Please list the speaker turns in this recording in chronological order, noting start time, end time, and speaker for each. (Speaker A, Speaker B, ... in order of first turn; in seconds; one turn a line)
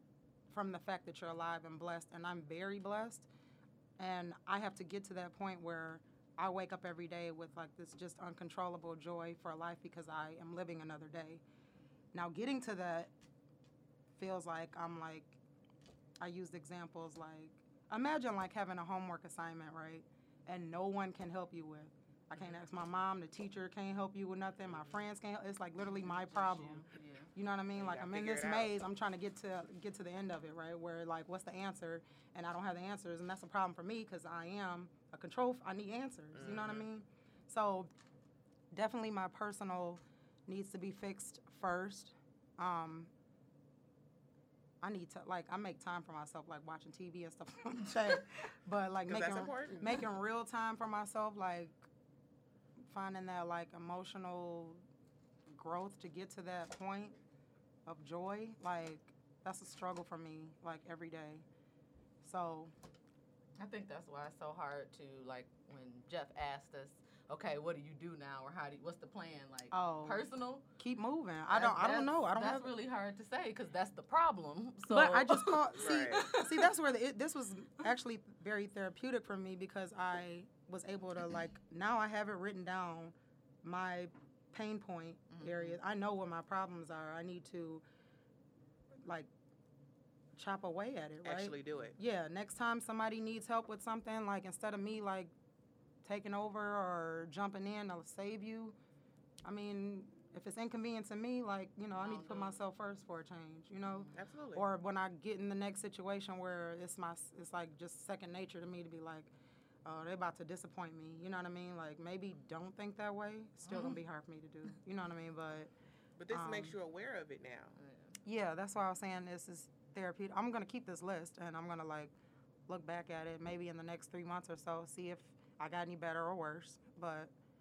Speaker A: 0.5-3.3
Speaker A: 4.0-11.4
Speaker A: 12.1-13.1
Speaker A: 14.2-15.4
Speaker A: 16.2-37.9
Speaker B: 25.8-27.3
Speaker C: 27.8-28.7
Speaker C: 36.3-36.9
Speaker A: 38.7-43.1
Speaker A: 44.8-51.8
Speaker C: 49.1-49.9
Speaker A: 52.9-54.8
Speaker A: 55.5-57.2
Speaker A: 57.9-61.5
Speaker A: 62.2-62.7
Speaker B: 63.6-70.7
Speaker A: 69.7-70.2
Speaker A: 70.8-72.7
Speaker B: 71.5-76.6
Speaker A: 74.9-87.8
Speaker C: 75.8-76.3
Speaker B: 85.3-85.8
Speaker A: 90.3-95.3
Speaker C: 91.2-92.0
Speaker A: 96.0-98.8
Speaker A: 99.5-109.3
Speaker B: 102.0-102.6
Speaker B: 103.8-104.1
Speaker C: 104.1-104.7
Speaker A: 109.8-115.7
Speaker B: 113.7-114.0
Speaker C: 116.2-117.8
Speaker A: 116.3-116.8
Speaker B: 117.8-118.2
Speaker A: 118.3-122.1
Speaker A: 122.7-127.3